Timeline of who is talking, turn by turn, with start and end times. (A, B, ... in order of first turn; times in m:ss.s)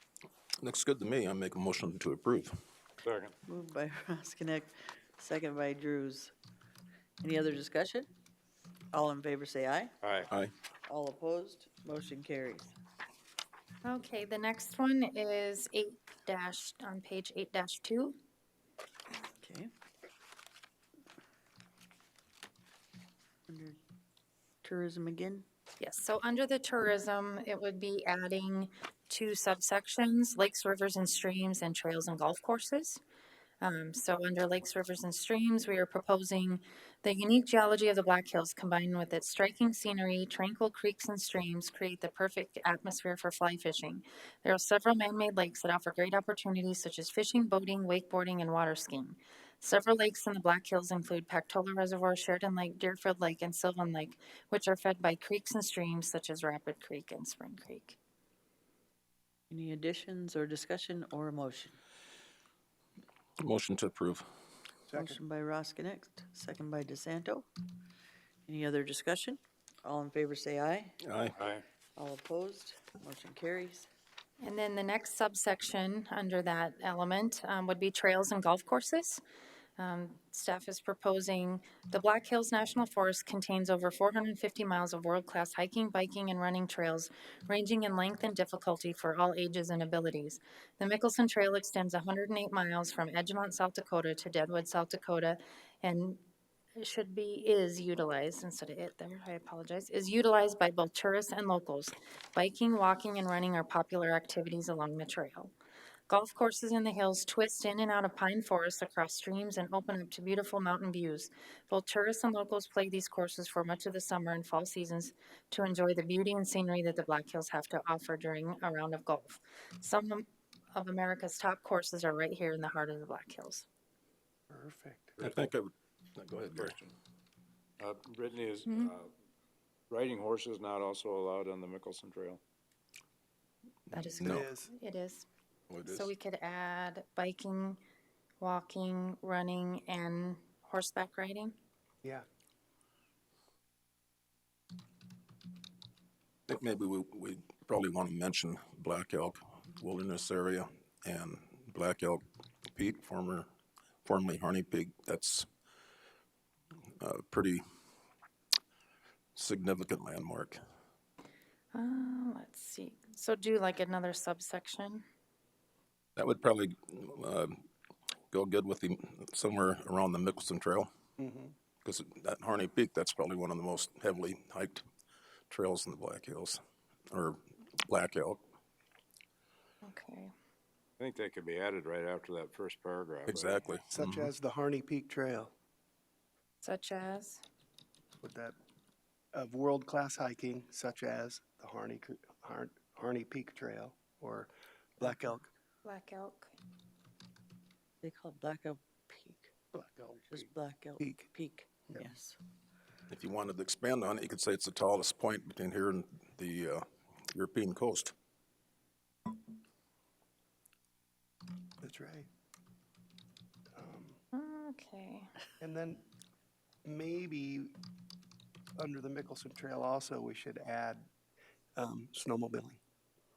0:00.6-0:02.5 A
0:03.0-0:03.4 B
0:03.5-0:06.3 C
0:07.2-0:08.1 C
0:08.9-0:10.0 C
0:10.0-0:10.3 B
0:10.9-0:12.7 C
0:13.8-0:18.2 D
0:19.2-0:19.7 C
0:23.5-0:23.8 C
0:24.6-0:25.4 C
0:25.8-0:33.0 D
0:33.6-0:58.0 D
0:59.5-1:01.8 C
1:03.4-1:04.3 A
1:04.9-1:05.2 E
1:04.9-1:07.5 C
1:08.5-1:11.0 C
1:11.0-1:11.4 A
1:11.4-1:11.6 B
1:12.0-1:13.9 C
1:14.4-1:19.2 D
1:19.8-1:36.2 D
1:36.8-1:45.5 D
1:46.1-2:03.7 D
2:04.5-2:05.2 E
2:05.2-2:05.5 B
2:05.2-2:06.8 A
2:06.5-2:06.9 B
2:07.8-2:09.1 B
2:08.7-2:08.9 D
2:09.9-2:12.4 B
2:13.9-2:15.3 D
2:14.2-2:14.5 A
2:14.2-2:14.7 E
2:15.7-2:16.1 A
2:15.8-2:17.8 D
2:18.4-2:21.5 D
2:26.5-2:33.5 A
2:34.0-2:35.5 A
2:37.0-2:37.6 A
2:39.4-2:40.6 A
2:41.7-2:45.0 D
2:46.2-2:47.6 A
2:48.3-2:50.9 A
2:51.2-2:51.5 E
2:51.8-2:54.8 A
2:55.5-2:58.4 A
2:59.8-3:00.3 D
3:01.0-3:03.6 B
3:03.3-3:04.3 A
3:03.9-3:05.5 E
3:06.6-3:07.4 D
3:08.2-3:08.6 E
3:09.3-3:15.5 E
3:15.8-3:16.6 D
3:18.0-3:19.5 C
3:19.7-3:20.5 E
3:20.3-3:22.4 C
3:21.0-3:21.3 E
3:23.1-3:28.1 A
3:31.8-3:32.3 E
3:33.7-3:34.2 E
3:34.3-3:35.3 D
3:35.6-3:36.0 E
3:36.8-3:37.8 E
3:38.8-3:41.1 E
3:41.8-3:42.8 E